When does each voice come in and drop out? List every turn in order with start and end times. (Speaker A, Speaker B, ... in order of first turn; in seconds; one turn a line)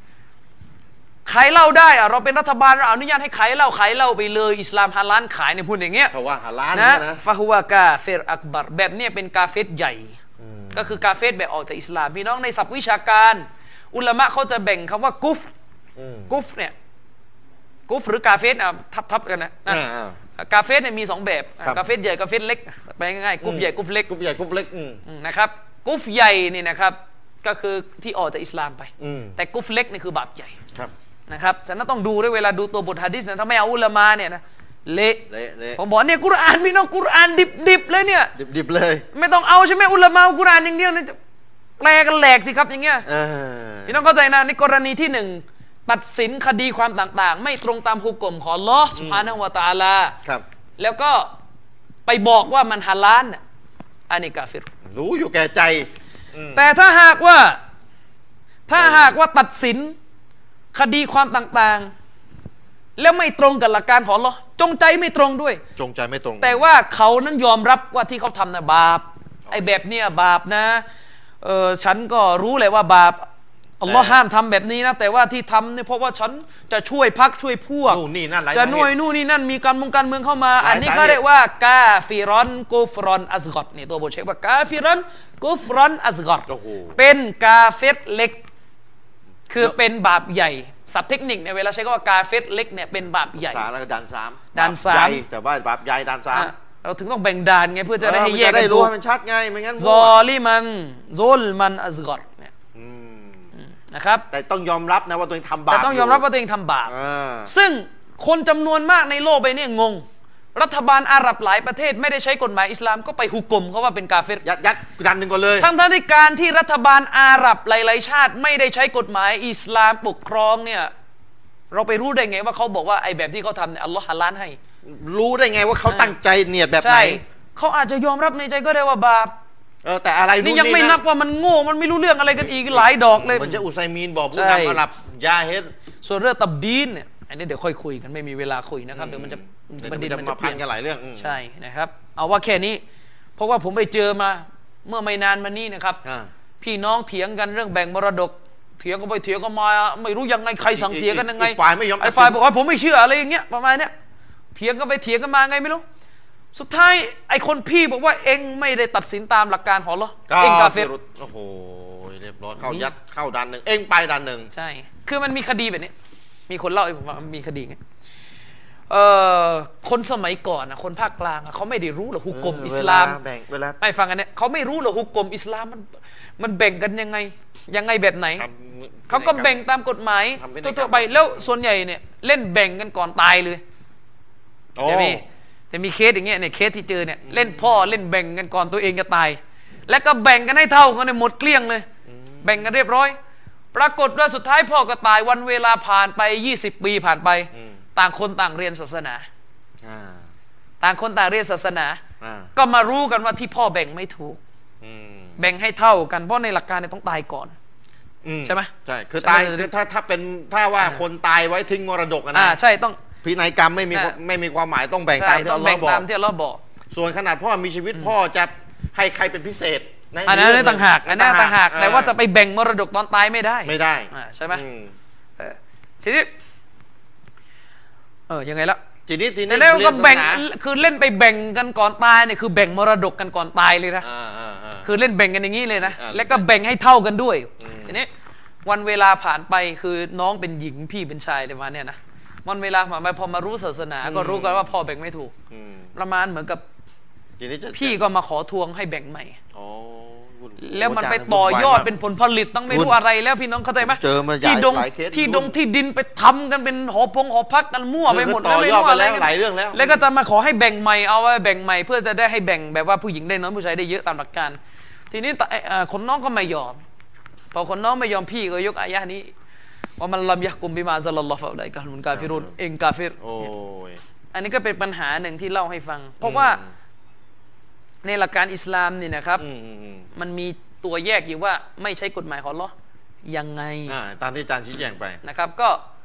Speaker A: 1.3-6.1
Speaker B: 6.1-7.2
Speaker A: 6.7-10.2
Speaker B: 10.4-11.0
Speaker A: 10.7-15.5
Speaker B: 16.0-16.4
Speaker A: 16.3-16.7
Speaker A: 17.9-19.8
Speaker B: 19.7-20.2
Speaker A: 20.4-24.1
Speaker B: 23.4-25.0
Speaker A: 25.1-30.6
Speaker B: 29.0-29.4
Speaker A: 31.3-38.3
Speaker B: 35.3-35.8
Speaker B: 38.4-39.1
Speaker A: 39.1-41.2
Speaker A: 41.8-43.0
Speaker B: 43.1-44.0
Speaker A: 43.9-50.2
Speaker B: 49.0-49.3
Speaker A: 50.8-51.3
Speaker A: 52.1-53.4
Speaker A: 54.1-54.7
Speaker B: 54.9-56.7
Speaker A: 56.5-57.6
Speaker A: 58.7-60.0
Speaker B: 58.8-59.1
Speaker A: 60.7-61.9
Speaker A: 63.0-65.6
Speaker B: 65.8-66.7
Speaker A: 66.4-70.8
Speaker A: 71.4-73.3
Speaker A: 73.8-78.0
Speaker B: 73.9-74.2
Speaker B: 77.9-78.9
Speaker A: 78.5-88.4
Speaker B: 80.6-81.2
Speaker B: 86.5-87.0
Speaker A: 89.5-93.7
Speaker B: 93.4-96.5
Speaker A: 94.5-95.2
Speaker A: 96.3-98.9
Speaker B: 98.0-100.2
Speaker A: 99.8-102.5
Speaker B: 102.8-103.5
Speaker A: 103.6-104.2
Speaker B: 104.3-106.2
Speaker A: 105.7-106.9
Speaker B: 106.8-107.5
Speaker A: 107.5-114.4
Speaker B: 114.4-115.7
Speaker A: 115.6-120.9
Speaker A: 121.7-124.6
Speaker B: 124.8-127.2
Speaker A: 125.9-126.1
Speaker A: 126.8-129.3
Speaker B: 129.8-131.0
Speaker A: 130.4-133.7
Speaker B: 132.6-135.7
Speaker A: 134.3-134.8
Speaker A: 136.0-140.6
Speaker B: 138.9-141.4
Speaker A: 141.2-142.8
Speaker A: 143.4-146.0
Speaker B: 146.0-146.3
Speaker A: 146.6-153.9
Speaker B: 150.7-152.4
Speaker A: 154.5-155.8
Speaker A: 156.5-160.9
Speaker B: 160.3-164.5
Speaker A: 162.6-162.9
Speaker A: 164.5-165.9
Speaker A: 166.5-167.8
Speaker A: 168.9-173.2
Speaker B: 172.3-173.8
Speaker A: 173.8-178.4
Speaker B: 178.4-179.6
Speaker A: 179.1-183.6
Speaker B: 180.4-181.5
Speaker B: 184.8-185.2
Speaker A: 184.8-191.9
Speaker B: 187.2-187.9
Speaker B: 192.1-192.7
Speaker A: 192.4-193.2
Speaker A: 193.7-199.3
Speaker B: 197.5-197.8
Speaker B: 199.8-200.3
Speaker A: 200.8-202.0
Speaker B: 202.2-202.5
Speaker A: 202.6-204.4
Speaker B: 204.8-205.4
Speaker A: 205.4-207.5
Speaker B: 208.2-212.6
Speaker A: 208.4-209.7
Speaker A: 212.3-213.0
Speaker B: 213.2-216.0
Speaker A: 213.9-214.2
Speaker A: 215.2-216.6
Speaker B: 216.9-222.2
Speaker A: 220.3-224.6
Speaker B: 223.7-224.9
Speaker A: 225.4-226.3
Speaker A: 228.3-228.8
Speaker B: 229.1-230.4
Speaker A: 229.5-234.1
Speaker B: 234.0-235.0
Speaker A: 234.8-238.1
Speaker B: 235.8-236.4
Speaker B: 237.6-238.0
Speaker A: 238.7-245.3
Speaker B: 244.0-244.7
Speaker B: 245.5-245.9
Speaker A: 245.9-246.6
Speaker B: 247.4-248.0
Speaker A: 247.7-249.4
Speaker B: 249.5-251.9
Speaker A: 250.6-264.6
Speaker B: 252.7-253.0
Speaker B: 253.8-255.5
Speaker B: 258.1-260.0
Speaker A: 265.1-266.8
Speaker A: 267.5-269.3
Speaker A: 270.0-273.5
Speaker B: 272.1-272.5
Speaker B: 273.2-274.0
Speaker A: 274.3-276.6
Speaker B: 276.2-276.7
Speaker A: 278.0-279.4
Speaker B: 279.4-280.1
Speaker A: 280.1-282.7
Speaker A: 283.2-284.0
Speaker B: 283.9-285.2
Speaker A: 285.2-285.8